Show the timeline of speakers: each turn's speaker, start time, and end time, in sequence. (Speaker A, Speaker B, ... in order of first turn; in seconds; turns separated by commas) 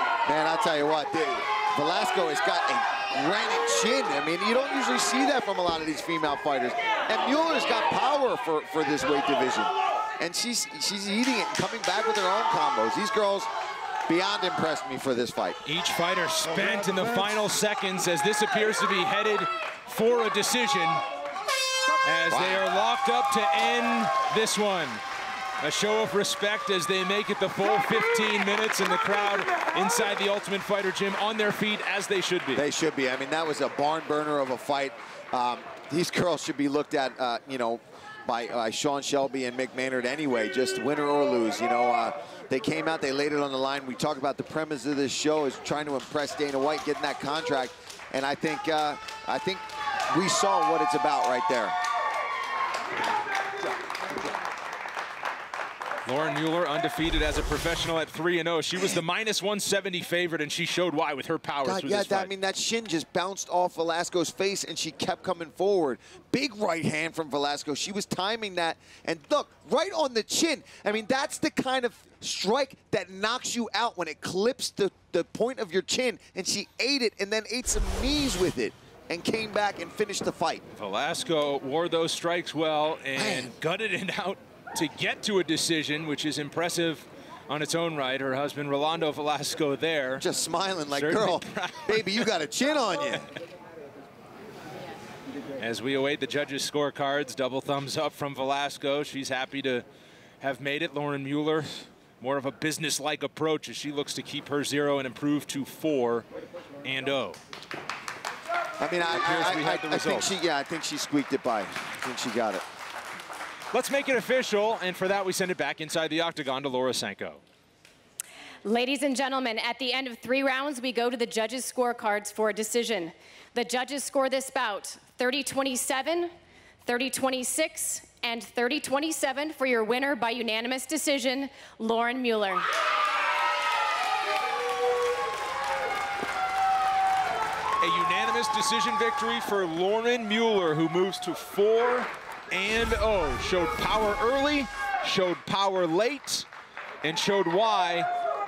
Speaker A: 0.2-13.5, Speaker A: 14.1-15.6, Speaker B: 15.6-21.0, Speaker B: 22.0-25.0, Speaker A: 22.3-22.6, Speaker B: 25.6-32.6, Speaker A: 32.5-51.7, Speaker B: 56.0-62.3, Speaker A: 61.6-80.6, Speaker B: 80.7-90.2, Speaker A: 83.2-83.5, Speaker A: 90.2-93.3, Speaker B: 90.9-92.2, Speaker B: 95.6-99.8, Speaker B: 100.4-106.2, Speaker B: 106.8-107.4, Speaker A: 108.8-112.6, Speaker B: 109.1-110.3, Speaker B: 113.7-117.4, Speaker C: 118.6-126.3, Speaker C: 126.8-132.7, Speaker B: 137.8-146.5, Speaker B: 147.0-148.1